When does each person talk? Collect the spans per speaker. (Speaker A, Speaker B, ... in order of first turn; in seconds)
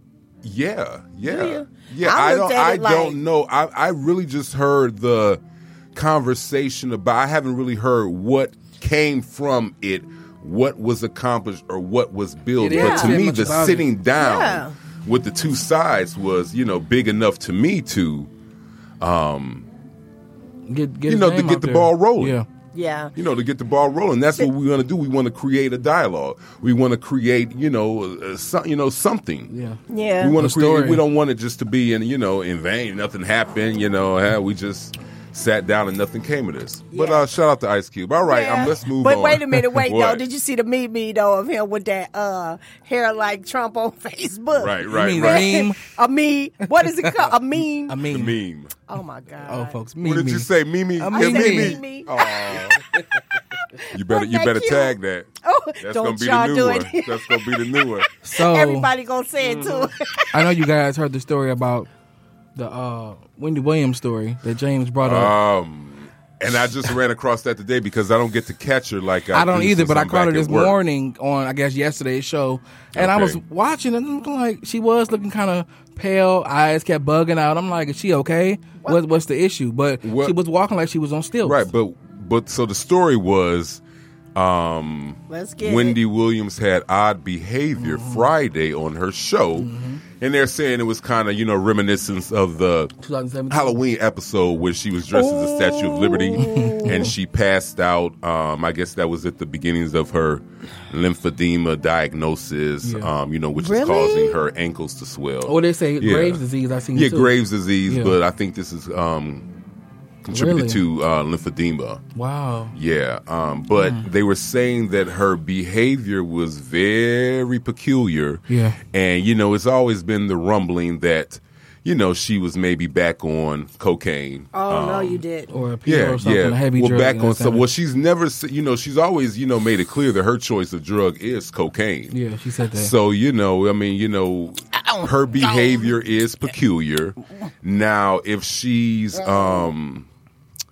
Speaker A: 0.4-5.4, 5.9-18.3, 19.0-19.7, 21.1-22.4, 23.1-29.5, 30.2-40.2, 44.5-45.7, 48.1-48.7, 50.0-52.8, 53.9-58.0, 65.0-70.7, 72.9-73.4, 80.0-80.3, 81.4-83.8, 84.3-92.9, 93.5-106.4, 106.9-109.5, 110.2-112.0, 112.7-125.2, 125.8-132.1, 132.8-140.1
Speaker B: 1.2-3.2, 12.7-13.2, 14.2-14.7, 22.7-23.1, 29.9-30.4, 36.9-37.3, 38.2-48.0, 48.9-49.8, 51.1-52.6, 53.7-60.6, 85.3-86.0, 95.1-97.1, 103.5-104.4, 124.5-125.5, 134.7-135.9, 139.1-139.7
Speaker C: 12.6-13.9, 20.7-22.4, 29.5-29.8, 30.4-31.0, 44.9-45.8, 46.8-47.3, 47.9-48.4, 49.5-51.8, 58.2-58.9, 59.4-61.9, 62.5-65.3, 69.3-81.7, 87.8-88.3, 89.6-90.0, 93.0-93.8, 96.4-97.1, 102.8-103.1, 105.4-107.3, 107.8-108.2, 110.3-110.8, 112.1-112.7, 113.8-114.0, 118.5-118.8, 125.5-127.7, 132.1-132.9